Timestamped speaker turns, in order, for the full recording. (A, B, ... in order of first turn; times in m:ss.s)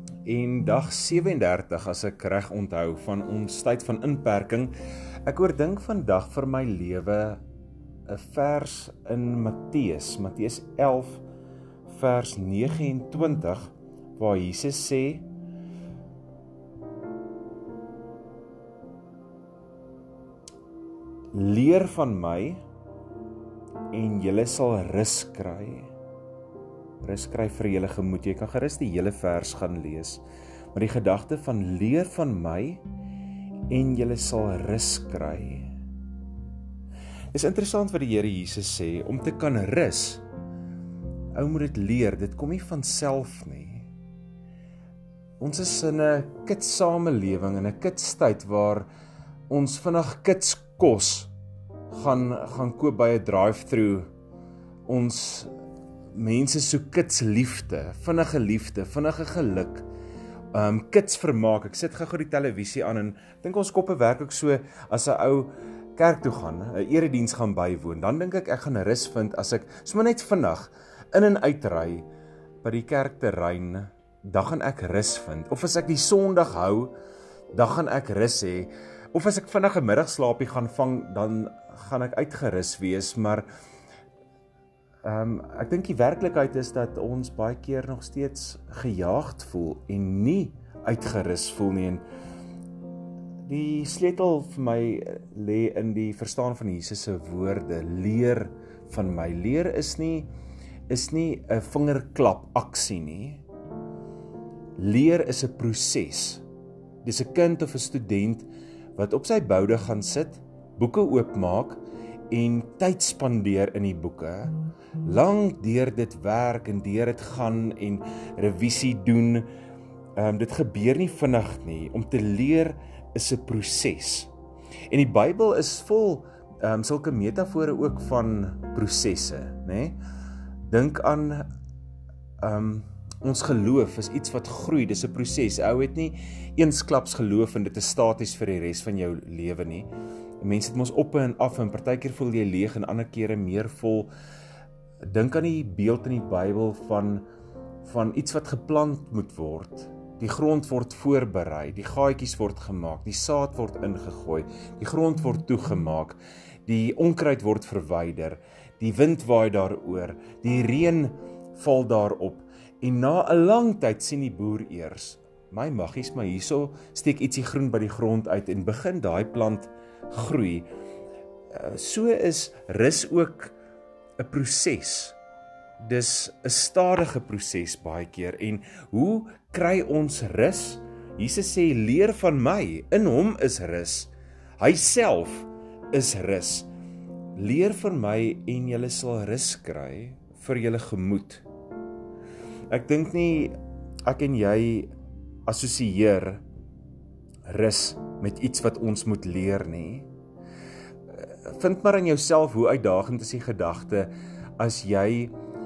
0:00.2-0:04.7 A
0:05.2-0:07.4 A
0:08.1-0:11.2 A
0:11.9-0:15.3 A
0:21.3-0:22.6 A
0:23.9-0:25.9 A
0:27.0-0:30.2 A
0:30.7-0:32.8 A
0:33.7-0:35.8 A
0:37.3-0:40.2 A
0:41.4-0:43.9 A
0:45.4-0:48.9 A
0:49.5-0:51.3 A
0:51.9-0:54.1 A
0:54.9-0:55.5 A
0:56.1-0:59.9 A
1:00.5-1:12.1 A
1:12.6-1:16.9 A
1:17.5-1:23.5 A
1:25.0-1:32.0 A
1:33.4-1:40.3 A
1:40.9-1:43.4 A
1:44.8-1:46.4 A
1:47.0-1:59.5 A
2:00.2-2:04.3 A
2:04.9-2:10.0 A
2:10.7-2:11.5 A
2:12.4-2:19.9 A
2:20.4-2:24.1 A
2:25.1-2:27.2 A
2:27.8-2:50.7 A
2:51.5-2:53.6 A
2:54.2-2:55.2 A
2:55.8-3:06.7 A
3:07.4-3:11.4 A
3:12.7-3:14.9 A
3:15.5-3:16.4 A
3:17.5-3:20.1 A
3:21.2-3:25.3 A